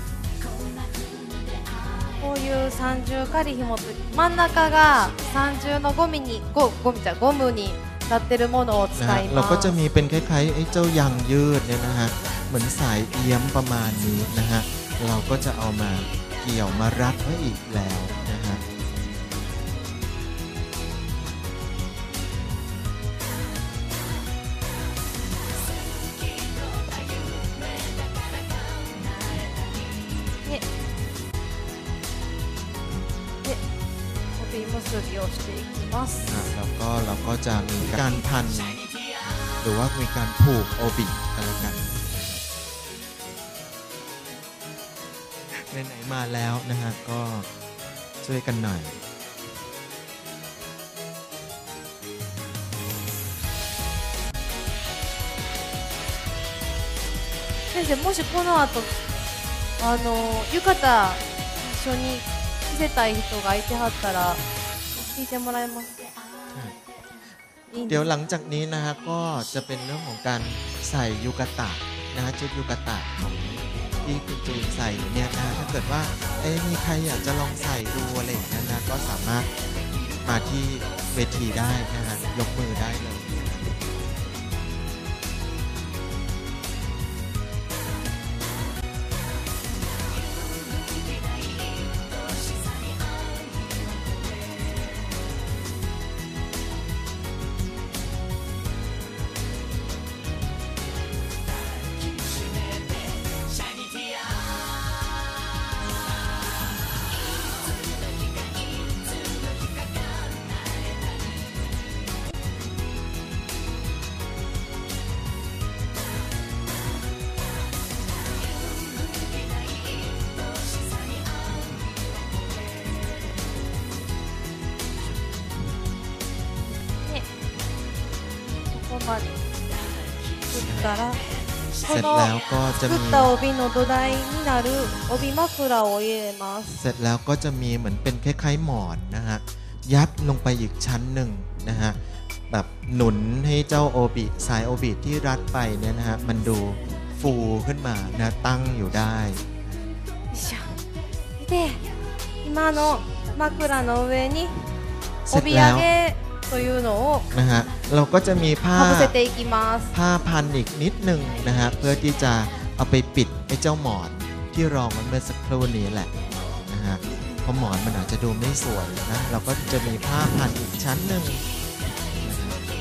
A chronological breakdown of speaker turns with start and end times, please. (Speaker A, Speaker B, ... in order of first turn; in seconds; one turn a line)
Speaker A: 2.2-9.8
Speaker B: 8.9-18.6
Speaker A: 34.4-36.5
Speaker B: 36.3-38.8
Speaker B: 39.6-42.4
Speaker B: 45.5-47.5
Speaker B: 48.2-49.0
Speaker A: 57.7-58.9
Speaker A: 59.8-64.4
Speaker A: 65.1-65.9
Speaker A: 67.7-68.1
Speaker B: 67.8-79.5
Speaker B: 80.2-83.7
Speaker A: 127.0-127.3
Speaker A: 128.7-129.3
Speaker A: 130.4-131.2
Speaker B: 130.6-130.9
Speaker A: 131.8-136.8
Speaker B: 131.8-133.3
Speaker B: 136.8-142.0
Speaker B: 142.5-149.6
Speaker A: 150.3-150.8
Speaker A: 151.4-151.8
Speaker A: 152.4-154.7
Speaker B: 155.3-155.9
Speaker A: 155.3-157.2
Speaker B: 157.3-159.1
Speaker A: 158.7-159.9
Speaker B: 159.9-171.4
Speaker B: 172.2-172.6